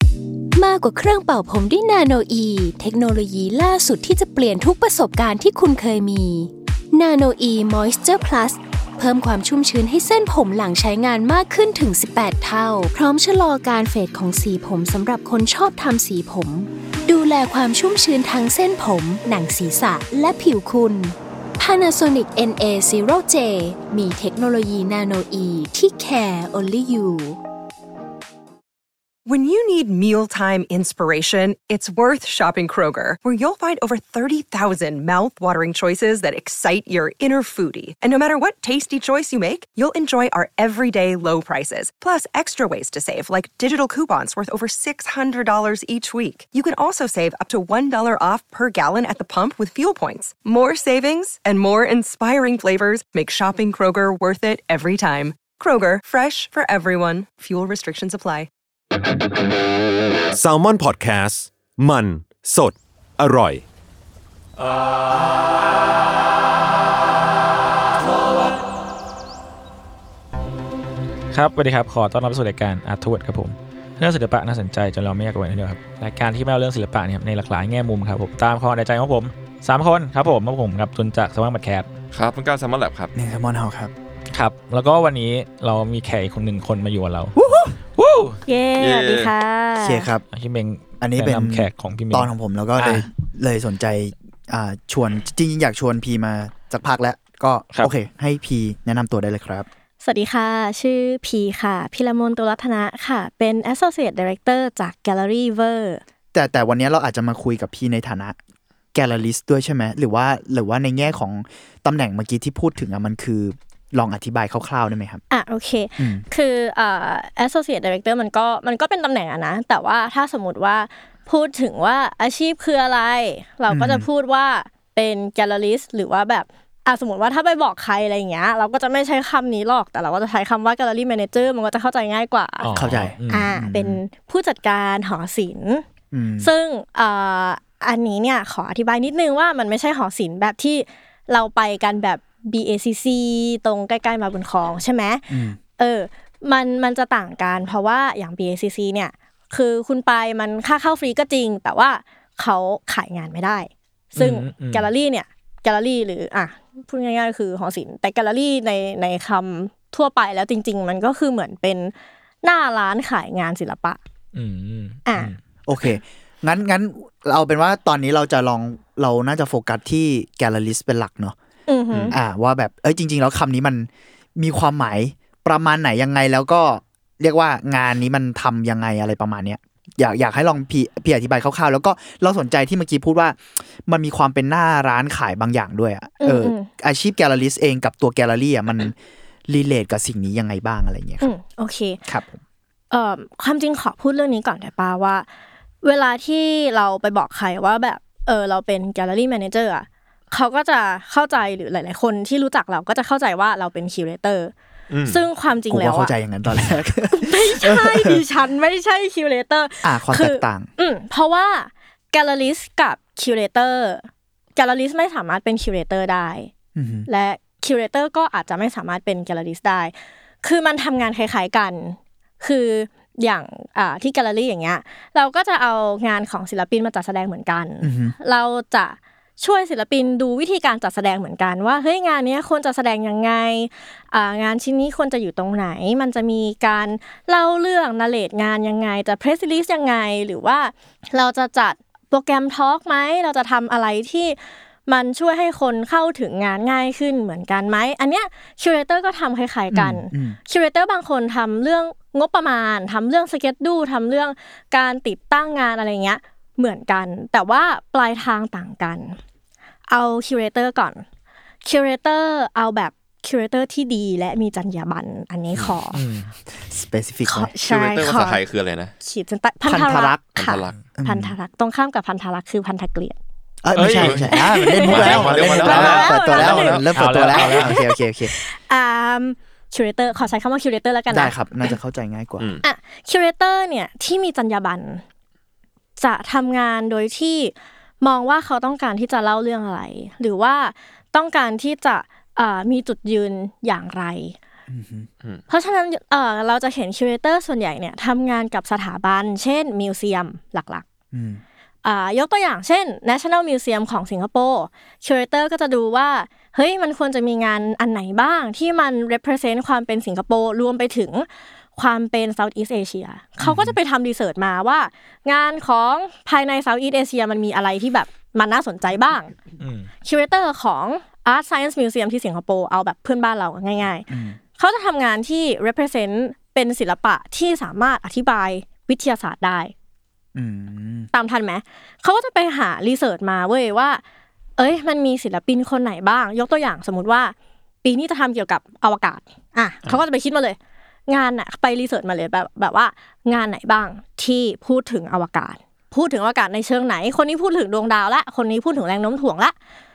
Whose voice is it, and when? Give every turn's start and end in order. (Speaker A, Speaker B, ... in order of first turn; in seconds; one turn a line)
Speaker A: 0.5-27.4
Speaker B: 29.2-58.5
Speaker C: 60.3-63.6
Speaker D: 71.3-81.9
Speaker E: 82.1-83.1
Speaker F: 83.2-83.9
Speaker D: 84.3-87.4
Speaker F: 87.4-87.7
Speaker D: 87.9-88.4
Speaker G: 88.5-90.1
Speaker E: 88.8-89.3
Speaker F: 89.8-90.2
Speaker D: 90.3-93.1
Speaker F: 91.0-99.7
Speaker G: 100.0-106.0
Speaker F: 106.3-108.4
Speaker F: 108.9-115.2
Speaker G: 115.3-132.8
Speaker F: 116.0-116.2
Speaker F: 123.7-124.1
Speaker D: 132.6-133.5
Speaker F: 132.7-134.0
Speaker G: 133.3-135.8
Speaker F: 136.1-136.5
Speaker G: 136.4-164.0
Speaker F: 145.3-145.6
Speaker D: 154.2-154.9
Speaker D: 164.3-165.4
Speaker G: 165.1-165.3
Speaker F: 165.7-171.3
Speaker G: 171.7-172.2
Speaker F: 172.1-191.3
Speaker G: 186.2-186.7
Speaker G: 191.2-192.0
Speaker F: 192.1-192.4
Speaker G: 192.9-195.3
Speaker G: 195.8-204.5
Speaker E: 204.9-205.2
Speaker G: 205.1-206.1
Speaker F: 205.7-208.2
Speaker G: 207.1-216.5
Speaker F: 209.8-210.7
Speaker F: 216.8-217.1
Speaker G: 217.1-259.2
Speaker F: 227.8-228.2
Speaker F: 249.7-250.4
Speaker G: 259.9-261.0
Speaker G: 261.6-266.0
Speaker D: 265.9-266.3
Speaker F: 266.6-267.5
Speaker G: 267.2-268.4
Speaker E: 267.6-268.9
Speaker G: 269.0-273.2
Speaker F: 269.6-270.2
Speaker E: 270.4-270.7
Speaker F: 271.0-271.4
Speaker F: 273.6-278.3
Speaker D: 273.7-276.1
Speaker E: 273.9-274.3
Speaker G: 274.2-276.9
Speaker E: 274.8-277.6
Speaker D: 276.9-277.8
Speaker G: 277.4-281.8
Speaker F: 281.1-282.5
Speaker G: 282.6-285.0
Speaker G: 286.0-294.4
Speaker F: 294.7-295.1
Speaker G: 295.5-300.9
Speaker F: 301.1-301.4
Speaker G: 301.8-319.3
Speaker F: 313.5-313.7
Speaker D: 319.6-319.9
Speaker G: 320.0-329.7
Speaker F: 324.1-324.4
Speaker F: 330.4-331.1
Speaker G: 331.1-334.0
Speaker G: 334.6-340.6
Speaker G: 341.1-349.5